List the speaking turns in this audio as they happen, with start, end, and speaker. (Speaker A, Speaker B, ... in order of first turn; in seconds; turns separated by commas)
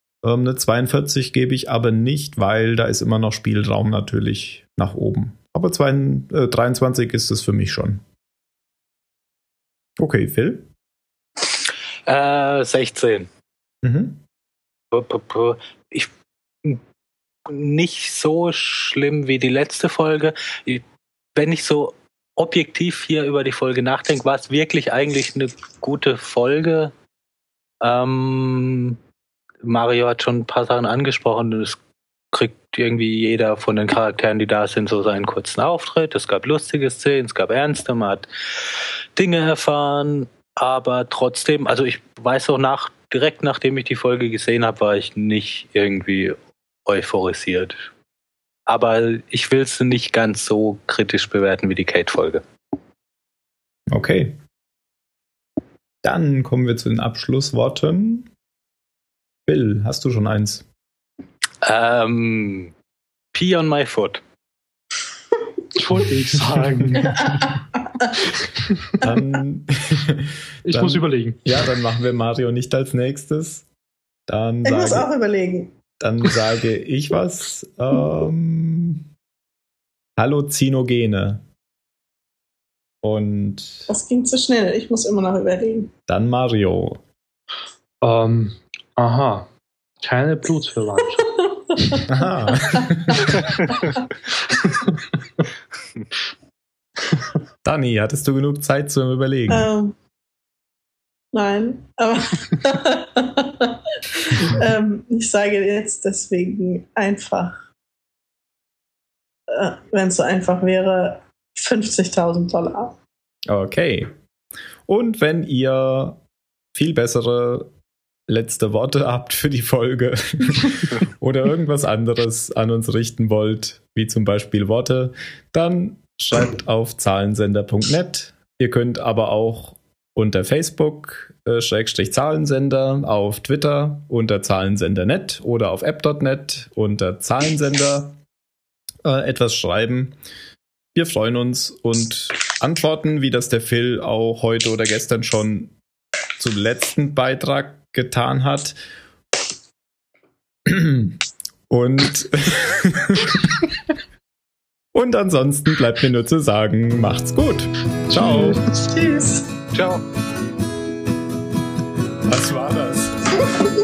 Speaker A: 0.2-8.0, Speaker A: 10.0-10.7, Speaker B: 12.1-13.3, Speaker A: 13.8-14.2, Speaker B: 14.9-16.1, Speaker B: 17.5-20.8, Speaker B: 21.4-26.9, Speaker B: 27.8-29.0, Speaker B: 29.6-31.8, Speaker B: 32.3-47.9, Speaker B: 48.7-52.4, Speaker A: 53.9-54.4, Speaker A: 56.0-58.3, Speaker A: 59.5-60.7, Speaker B: 61.6-62.7, Speaker B: 63.3-64.2, Speaker C: 65.8-67.2, Speaker A: 66.6-67.0, Speaker D: 67.0-68.1, Speaker A: 69.0-73.7, Speaker C: 70.6-71.5, Speaker A: 74.3-75.1, Speaker D: 74.6-75.8, Speaker A: 76.0-79.1, Speaker A: 80.2-81.4, Speaker A: 83.0-83.9, Speaker D: 83.9-85.9, Speaker A: 86.1-87.0, Speaker C: 88.0-91.3, Speaker D: 91.3-93.5, Speaker A: 92.1-93.4, Speaker C: 94.6-95.0, Speaker A: 97.6-99.7, Speaker D: 99.5-100.0, Speaker D: 101.3-107.7, Speaker D: 109.5-113.0, Speaker A: 113.5-114.1, Speaker A: 114.9-116.2, Speaker A: 116.7-117.7, Speaker A: 118.3-138.2, Speaker A: 139.0-140.2, Speaker A: 140.9-145.8, Speaker A: 146.4-148.8, Speaker A: 150.7-153.6, Speaker A: 154.9-158.6, Speaker C: 158.1-158.6, Speaker D: 158.3-159.5, Speaker B: 159.7-160.0, Speaker A: 162.2-163.4